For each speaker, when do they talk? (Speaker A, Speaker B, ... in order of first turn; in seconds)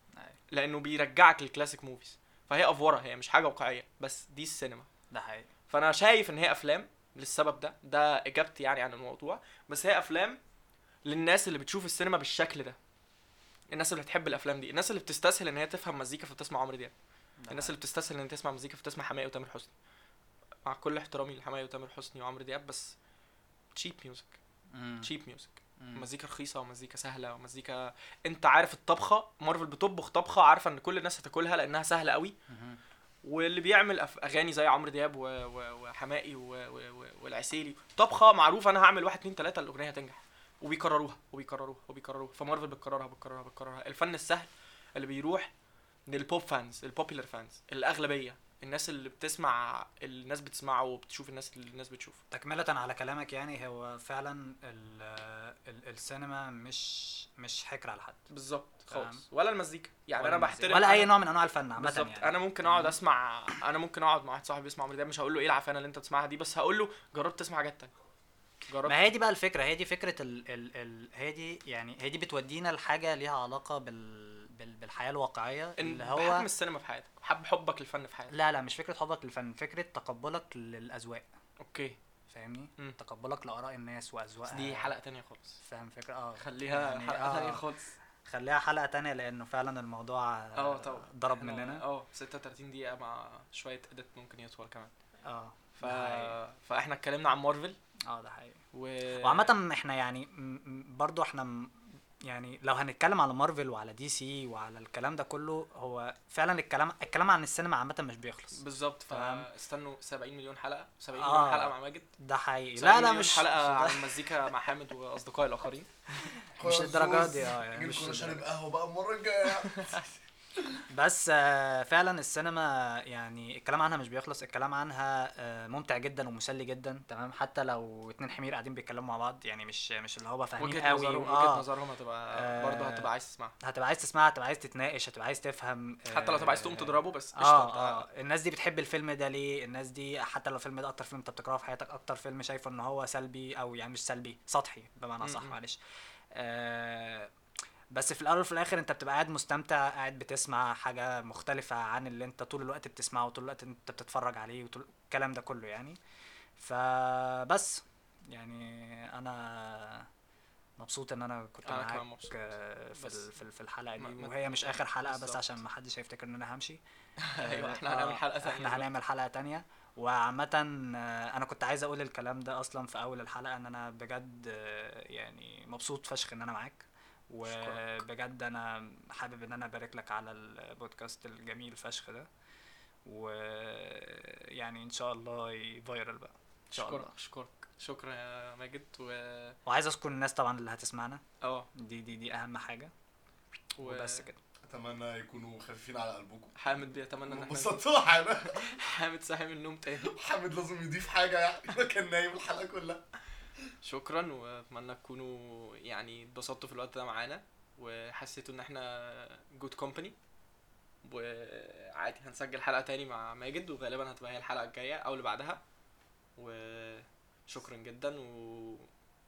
Speaker A: 0.5-4.9, 5.7-10.4, 11.1-12.8, 13.7-16.9, 17.5-19.7, 20.6-23.0, 23.7-24.4, 25.0-32.4, 33.2-45.5, 46.1-52.2, 58.3-61.1, 61.8-67.9, 68.7-69.0, 75.8-78.3, 81.6-82.0, 84.5-85.6, 86.4-87.9, 90.5-94.9, 95.8-97.8, 98.7-99.5, 108.5-112.1, 112.8-116.3, 119.7-120.1, 130.6-133.6, 136.1-138.1, 145.2-145.6, 161.7-163.3, 164.0-165.6, 167.2-168.9, 177.5-177.8, 186.7-189.6, 191.4-191.7, 193.8-194.3, 196.6-200.2, 203.8-210.2, 211.0-215.6, 216.4-218.9
Speaker B: 5.1-5.5, 17.4-17.8, 24.7-25.1, 25.8-26.1, 32.5-32.8, 52.3-58.3, 58.9-59.2, 60.2-63.0, 68.9-76.5, 78.3-81.3, 82.3-84.9, 85.6-87.7, 88.2-91.8, 95.2-96.4, 98.1-98.6, 99.2-109.5, 111.2-114.1, 116.6-118.5, 120.9-131.7, 132.3-133.1, 133.6-145.8, 146.3-147.3, 147.9-156.0, 156.6-160.1, 160.8-166.8, 167.4-182.3, 183.1-187.1, 189.7-192.9, 193.8-194.4
Speaker C: 116.6-120.0, 194.6-196.6, 197.3-198.8, 200.0-203.0